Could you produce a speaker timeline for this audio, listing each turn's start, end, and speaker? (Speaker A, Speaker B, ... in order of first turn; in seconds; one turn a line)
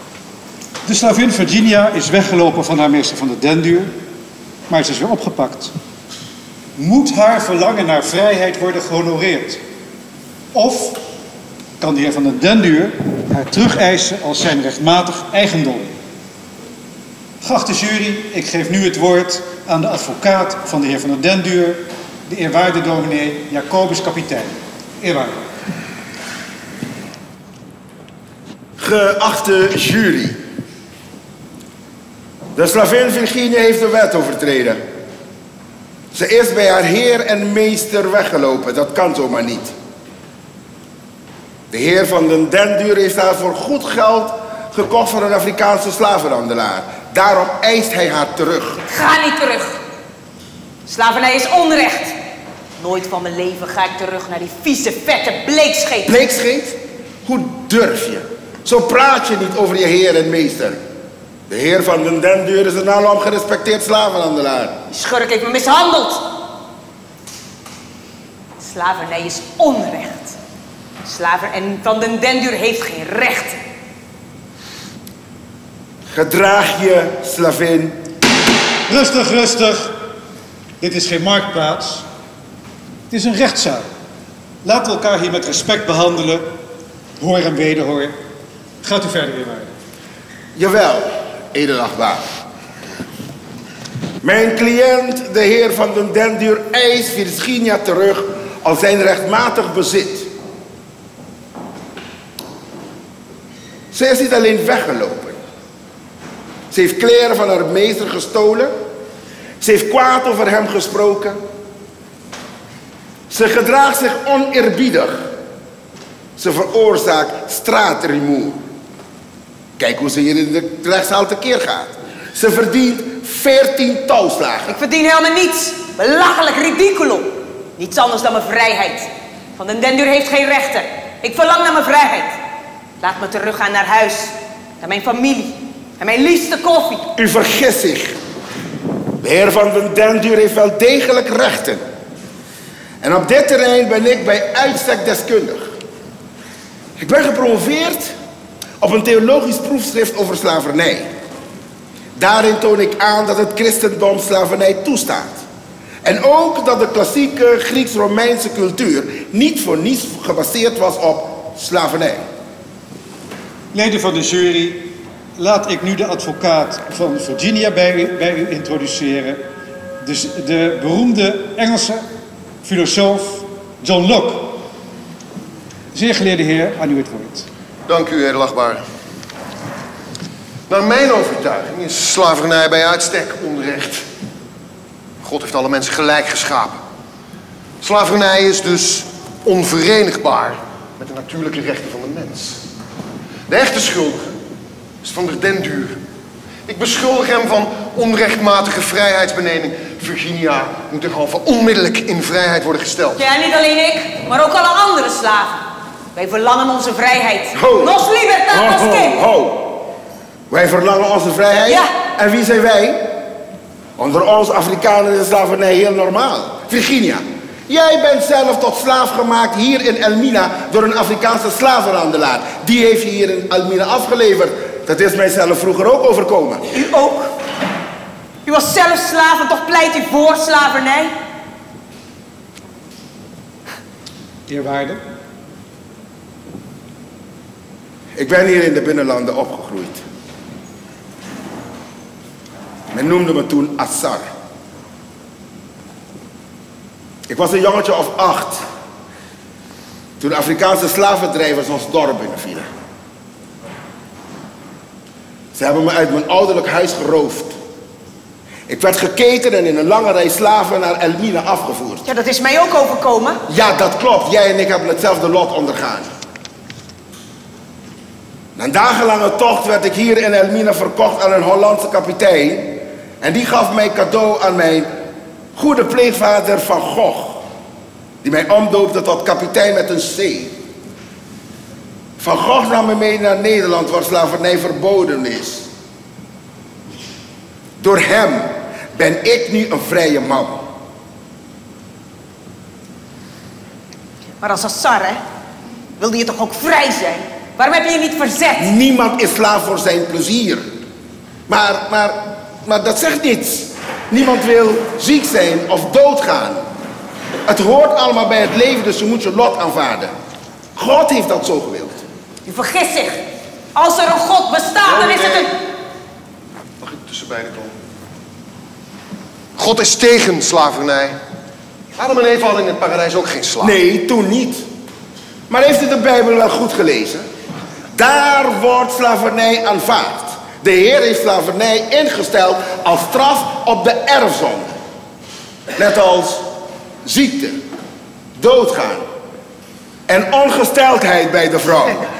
Speaker A: 0.8-3.9
Speaker A: 4.7-5.7
Speaker A: 6.8-9.6
Speaker A: 10.5-11.0
Speaker A: 11.8-15.9
Speaker A: 17.4-25.4
Speaker B: 28.8-30.4
Speaker B: 32.5-34.8
Speaker B: 36.1-39.7
Speaker B: 41.7-48.8
Speaker C: 48.8-49.8
Speaker C: 50.9-52.1
Speaker C: 52.8-56.1
Speaker B: 56.0-60.8
Speaker B: 61.5-64.8
Speaker C: 64.9-66.2
Speaker C: 68.6-70.3
Speaker C: 71.0-73.6
Speaker B: 76.1-78.0
Speaker A: 78.9-79.9
Speaker A: 80.8-82.0
Speaker A: 83.1-83.8
Speaker A: 84.6-86.5
Speaker A: 87.2-88.1
Speaker A: 88.8-89.7
Speaker B: 90.5-92.2
Speaker B: 94.2-100.3
Speaker B: 103.9-105.4
Speaker B: 106.7-108.7
Speaker B: 109.6-111.4
Speaker B: 113.3-115.3
Speaker B: 116.4-118.6
Speaker B: 119.8-124.8
Speaker C: 124.7-132.3
Speaker C: 133.0-137.1
Speaker B: 137.2-138.2
Speaker B: 139.2-141.8
Speaker B: 143.0-145.7
Speaker B: 147.0-148.1
Speaker B: 148.8-151.1
Speaker B: 152.1-155.4
Speaker B: 156.0-162.2
Speaker A: 163.7-169.4
Speaker A: 170.0-172.0
Speaker A: 172.6-174.6
Speaker A: 175.9-177.5
Speaker D: 177.9-178.8
Speaker D: 180.7-184.0
Speaker D: 185.2-186.8
Speaker D: 187.8-192.6
Speaker D: 193.5-194.3
Speaker D: 195.0-196.0
Speaker D: 196.7-203.2
Speaker C: 203.2-205.6
Speaker C: 206.1-209.2
Speaker B: 207.5-209.7
Speaker B: 210.5-213.1
Speaker C: 211.7-211.9
Speaker B: 214.0-226.6
Speaker C: 226.7-227.3
Speaker C: 228.4-231.1
Speaker A: 234.5-235.0
Speaker B: 238.1-240.0
Speaker B: 242.9-244.3
Speaker B: 247.3-248.6
Speaker B: 250.2-252.7
Speaker B: 255.5-257.6
Speaker B: 258.7-262.0
Speaker C: 262.0-263.4
Speaker B: 263.5-266.1
Speaker B: 268.6-274.9
Speaker B: 275.5-277.4
Speaker B: 278.2-280.6
Speaker B: 282.2-285.7
Speaker B: 287.8-290.7
Speaker C: 294.4-295.2
Speaker C: 296.0-298.7
Speaker B: 298.6-300.6
Speaker B: 301.5-306.6
Speaker B: 307.5-310.1
Speaker B: 310.8-312.0
Speaker C: 312.4-313.2
Speaker C: 313.7-315.5
Speaker D: 314.8-315.5
Speaker D: 316.8-317.7
Speaker D: 319.6-321.2
Speaker D: 321.9-323.8
Speaker B: 323.6-324.7
Speaker B: 325.5-327.2
Speaker B: 327.9-334.7
Speaker B: 335.8-336.4
Speaker B: 337.0-337.6
Speaker B: 338.4-339.1
Speaker B: 340.1-342.1